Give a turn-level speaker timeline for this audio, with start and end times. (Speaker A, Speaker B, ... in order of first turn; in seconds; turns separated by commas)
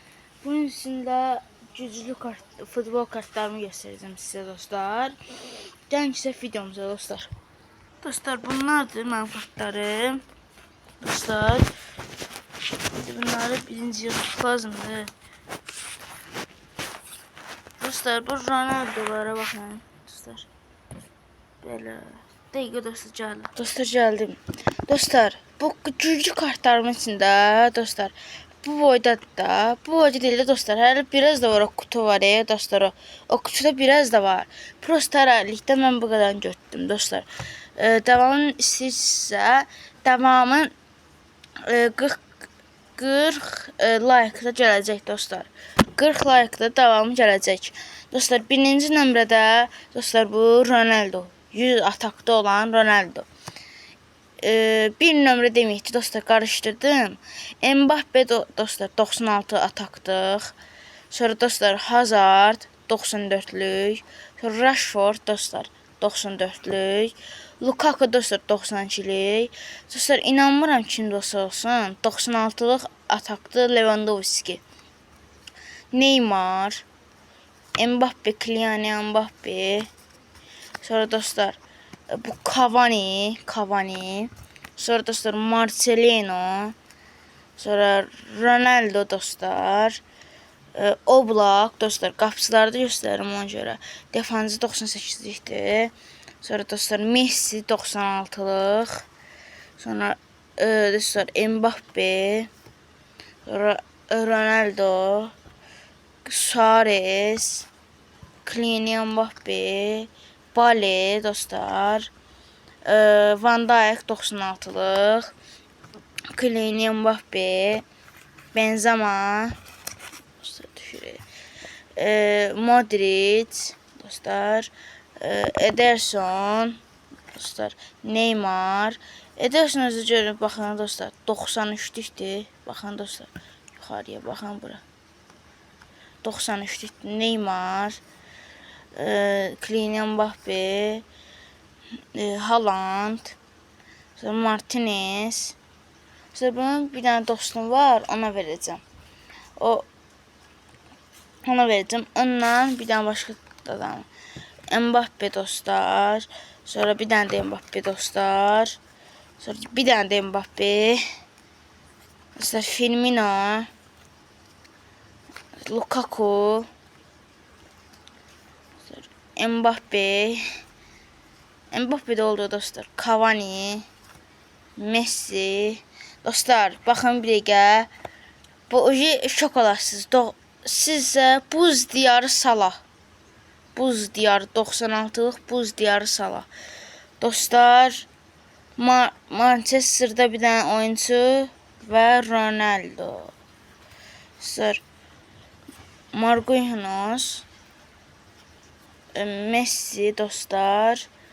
Speaker A: 0.4-5.2, Speaker A: 5.9-7.3, Speaker A: 8.0-10.2, Speaker A: 11.0-11.7, Speaker A: 12.9-15.1, Speaker A: 17.8-20.5, Speaker A: 21.6-40.7, Speaker A: 41.6-42.3, Speaker A: 43.0-53.3, Speaker A: 54.4-60.5, Speaker A: 61.1-74.6, Speaker A: 75.9-76.8, Speaker A: 77.8-79.9, Speaker A: 80.8-86.8, Speaker A: 87.6-90.0, Speaker A: 90.7-99.0, Speaker A: 99.8-102.5, Speaker A: 103.5-105.3, Speaker A: 106.2-107.7, Speaker A: 108.4-112.1, Speaker A: 112.8-115.3, Speaker A: 116.3-117.8, Speaker A: 118.5-119.6, Speaker A: 120.4-121.2, Speaker A: 122.0-126.8, Speaker A: 127.3-134.8, Speaker A: 136.2-138.0, Speaker A: 138.9-141.0, Speaker A: 142.1-143.4, Speaker A: 144.2-145.6, Speaker A: 146.3-148.8, Speaker A: 149.6-149.9, Speaker A: 151.4-154.1, Speaker A: 154.7-158.8, Speaker A: 159.4-161.0, Speaker A: 162.3-163.7, Speaker A: 165.7-166.7, Speaker A: 168.8-170.4, Speaker A: 171.7-173.8, Speaker A: 174.8-177.9, Speaker A: 178.7-182.8, Speaker A: 183.7-186.5, Speaker A: 187.2-188.1, Speaker A: 188.8-193.3, Speaker A: 194.4-194.8, Speaker A: 196.1-197.4, Speaker A: 199.1-201.1